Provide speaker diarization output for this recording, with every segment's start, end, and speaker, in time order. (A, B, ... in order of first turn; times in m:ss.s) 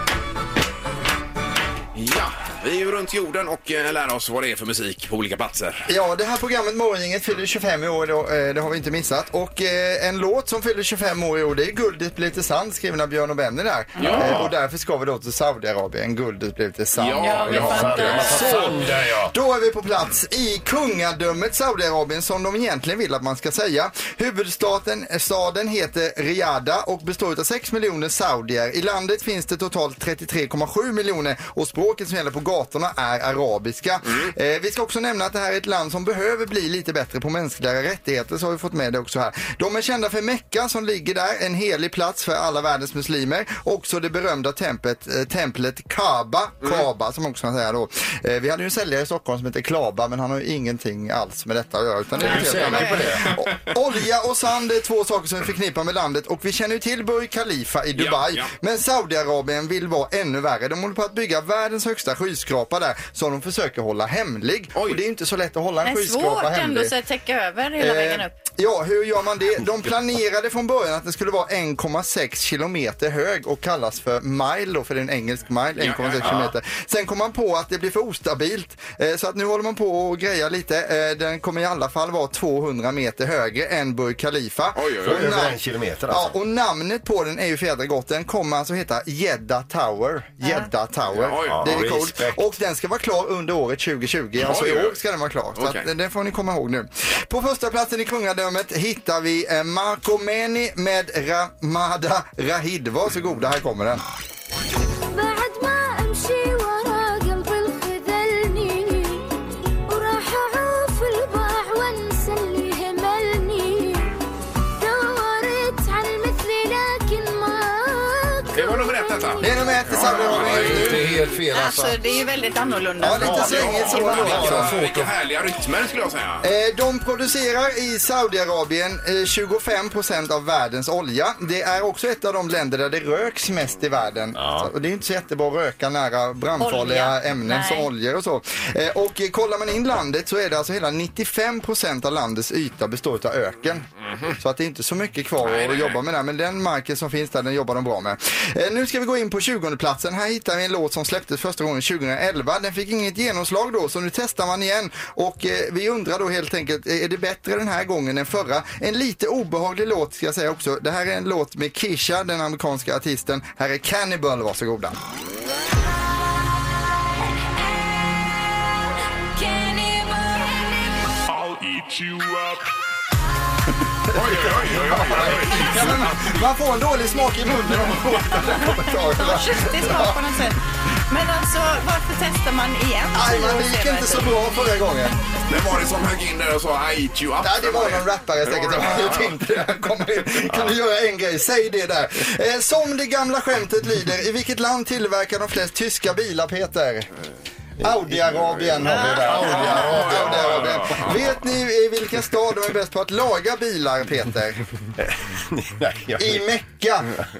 0:01.9-0:05.9 A
0:05.9-1:06.9 B
0:14.0-0:14.5 A
0:16.9-0:18.9 A
0:17.2-0:18.7 C
0:17.4-0:19.3 D
0:52.1-0:53.0 C
0:52.2-0:53.2 D
0:52.2-0:53.4 A
0:58.0-0:58.5 A
1:04.7-1:05.0 A
1:05.8-1:08.3 C
1:07.8-1:25.6 B
1:15.8-1:16.5 A
1:24.7-1:25.4 A
1:25.0-1:26.3 D
1:26.1-1:44.0 B
1:30.4-1:30.7 C
1:31.2-1:31.8 A
1:31.4-1:32.4 D
1:34.4-1:35.0 A
1:35.5-1:35.8 A
1:45.1-1:49.3 E
1:49.9-1:54.1 E
1:54.8-1:59.8 E
1:58.5-2:01.2 A
1:59.4-2:01.0 B
2:00.1-2:02.0 D
2:01.5-2:04.5 C
2:03.0-2:04.7 B
2:03.1-2:05.1 D
2:03.4-2:06.4 A
2:06.4-2:23.8 B
2:14.4-2:14.7 D
2:16.6-2:17.9 C
2:24.4-2:45.0 B
2:25.4-2:26.0 A
2:49.4-2:50.4 E
2:54.1-3:00.2 B
2:54.1-2:56.3 A
2:59.1-3:00.6 C
3:01.1-3:04.3 C
3:03.1-3:05.2 B
3:05.5-3:09.4 A
3:07.4-3:17.1 B
3:17.8-3:24.6 B
3:17.8-3:18.1 D
3:18.8-3:20.9 D
3:18.8-3:19.8 C
3:19.2-3:21.4 A
3:25.0-3:26.4 D
3:26.2-3:27.2 B